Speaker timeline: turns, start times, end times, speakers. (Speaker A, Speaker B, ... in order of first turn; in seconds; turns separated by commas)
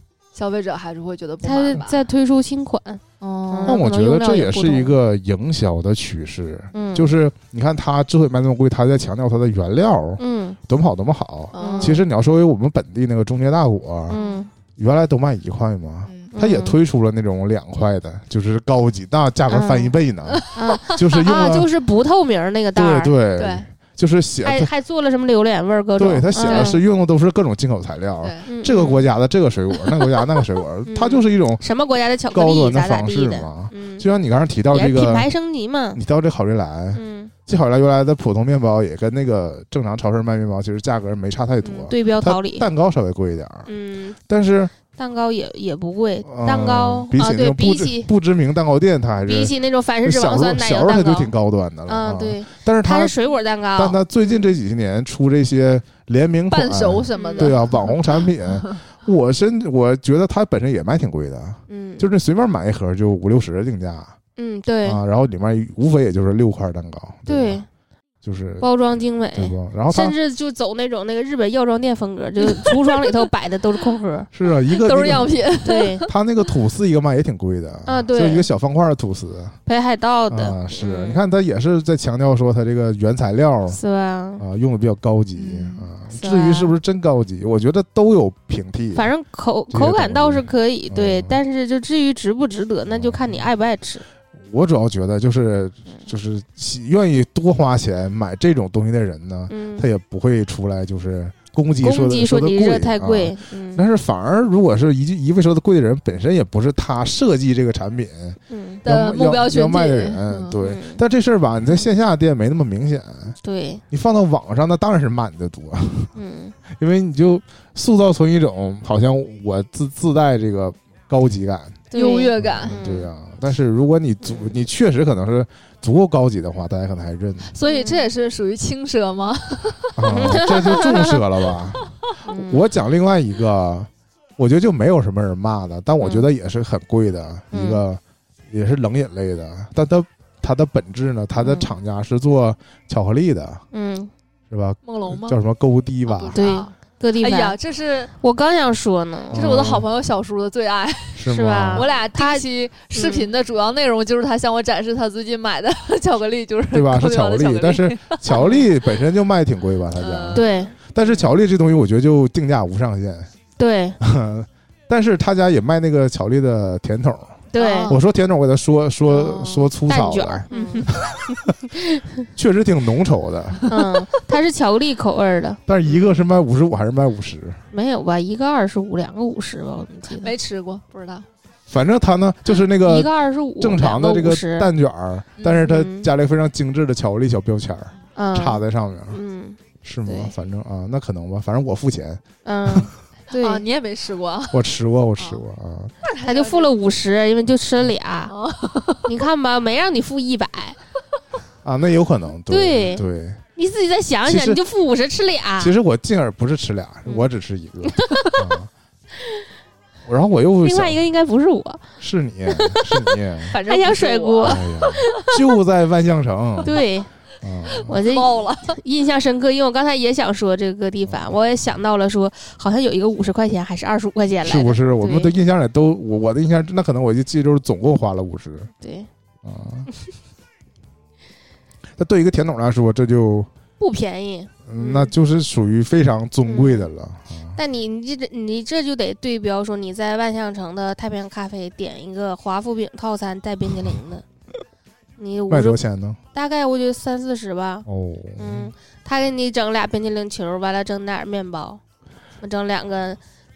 Speaker A: 0.3-2.1, Speaker B: 1.4-5.0, Speaker A: 3.2-3.8, Speaker C: 3.6-14.2, Speaker B: 6.7-7.1, Speaker B: 10.2-10.6, Speaker A: 11.5-12.0, Speaker B: 11.6-12.0, Speaker B: 14.1-14.5, Speaker A: 14.1-14.4, Speaker C: 14.8-21.7, Speaker A: 16.1-16.3, Speaker B: 16.3-16.8, Speaker B: 19.5-19.9, Speaker A: 20.3-21.2, Speaker B: 20.5-23.1, Speaker C: 22.7-24.7, Speaker A: 23.4-23.7, Speaker B: 24.4-26.8, Speaker C: 26.0-31.6, Speaker A: 26.4-26.8, Speaker A: 28.2-29.1, Speaker B: 28.4-29.1, Speaker A: 29.7-30.4, Speaker B: 30.9-34.0, Speaker C: 32.3-35.3, Speaker B: 34.7-36.0, Speaker C: 35.9-43.7, Speaker B: 36.9-37.3, Speaker B: 41.6-42.6, Speaker B: 43.6-44.2, Speaker C: 44.2-44.7, Speaker B: 44.9-48.1, Speaker C: 46.2-53.1, Speaker B: 49.3-51.3, Speaker B: 51.9-54.0, Speaker C: 53.8-64.2, Speaker A: 56.5-58.8, Speaker B: 57.1-57.6, Speaker B: 61.7-62.1, Speaker B: 64.3-65.0, Speaker C: 64.8-67.6, Speaker B: 67.3-67.7, Speaker C: 68.2-68.7, Speaker B: 68.6-74.3, Speaker C: 69.3-70.1, Speaker A: 72.4-73.3, Speaker C: 74.3-75.4, Speaker A: 74.7-76.1, Speaker B: 75.6-76.0, Speaker C: 76.0-79.6, Speaker B: 77.8-78.5, Speaker B: 79.7-81.2, Speaker C: 80.3-83.8, Speaker B: 83.7-84.4, Speaker C: 84.4-89.1, Speaker A: 85.3-85.9, Speaker B: 86.1-86.7, Speaker B: 88.9-94.0, Speaker C: 89.7-91.4, Speaker C: 92.9-93.5, Speaker C: 94.4-113.3, Speaker B: 99.5-99.8, Speaker B: 101.8-103.8, Speaker B: 108.5-108.8, Speaker A: 108.8-110.6, Speaker B: 110.6-111.0, Speaker B: 113.4-113.8, Speaker C: 113.9-116.1, Speaker B: 116.1-116.5, Speaker C: 116.7-121.8, Speaker B: 121.9-123.1, Speaker A: 121.9-122.8, Speaker C: 122.4-127.5, Speaker B: 124.2-124.5, Speaker A: 127.5-131.2, Speaker B: 127.7-128.0, Speaker C: 129.9-143.6, Speaker B: 130.1-131.2, Speaker B: 132.2-132.6, Speaker B: 136.0-136.3, Speaker B: 137.5-137.8, Speaker B: 141.3-141.7, Speaker B: 143.7-144.1, Speaker C: 144.5-146.5, Speaker A: 144.8-145.4, Speaker A: 146.1-148.1, Speaker B: 146.3-147.6, Speaker B: 148.2-149.4, Speaker C: 149.3-149.9, Speaker A: 149.3-158.7, Speaker C: 151.1-151.9, Speaker B: 151.3-153.3, Speaker C: 156.7-163.3, Speaker A: 159.9-161.3, Speaker B: 160.3-160.7, Speaker B: 163.6-164.0, Speaker C: 164.0-171.5, Speaker B: 167.5-168.0, Speaker A: 167.6-167.9, Speaker B: 169.1-172.2, Speaker A: 170.5-170.9, Speaker C: 172.3-173.7, Speaker B: 173.7-175.6, Speaker C: 175.7-177.6, Speaker B: 177.7-180.3, Speaker A: 180.2-181.3, Speaker C: 181.7-189.2, Speaker B: 182.8-184.7, Speaker A: 185.4-185.7, Speaker B: 185.6-186.1, Speaker B: 188.2-190.3, Speaker C: 189.8-192.9, Speaker B: 192.4-193.6, Speaker A: 193.3-194.6, Speaker C: 194.5-195.9, Speaker A: 196.0-196.7, Speaker B: 196.2-198.3, Speaker A: 198.3-199.1, Speaker B: 199.0-200.8, Speaker C: 201.6-203.4, Speaker B: 202.5-203.0, Speaker B: 203.6-205.7, Speaker C: 204.2-204.6, Speaker C: 205.6-208.7, Speaker B: 207.8-208.4, Speaker C: 210.1-211.0, Speaker B: 210.6-211.8, Speaker C: 212.0-213.5, Speaker B: 212.5-215.3, Speaker A: 213.5-215.2, Speaker C: 214.4-216.8, Speaker B: 216.6-217.1, Speaker C: 217.4-217.9, Speaker A: 217.7-218.8, Speaker B: 217.8-225.3, Speaker C: 221.1-221.3, Speaker C: 224.4-228.7, Speaker B: 228.8-229.1, Speaker C: 229.4-229.9, Speaker C: 232.0-233.5, Speaker B: 233.8-235.1, Speaker C: 234.7-237.6, Speaker B: 236.4-236.9, Speaker B: 237.6-244.2, Speaker B: 245.2-245.8, Speaker C: 245.5-246.2, Speaker B: 246.3-247.8, Speaker C: 247.8-248.7, Speaker B: 248.4-251.8, Speaker B: 252.4-253.2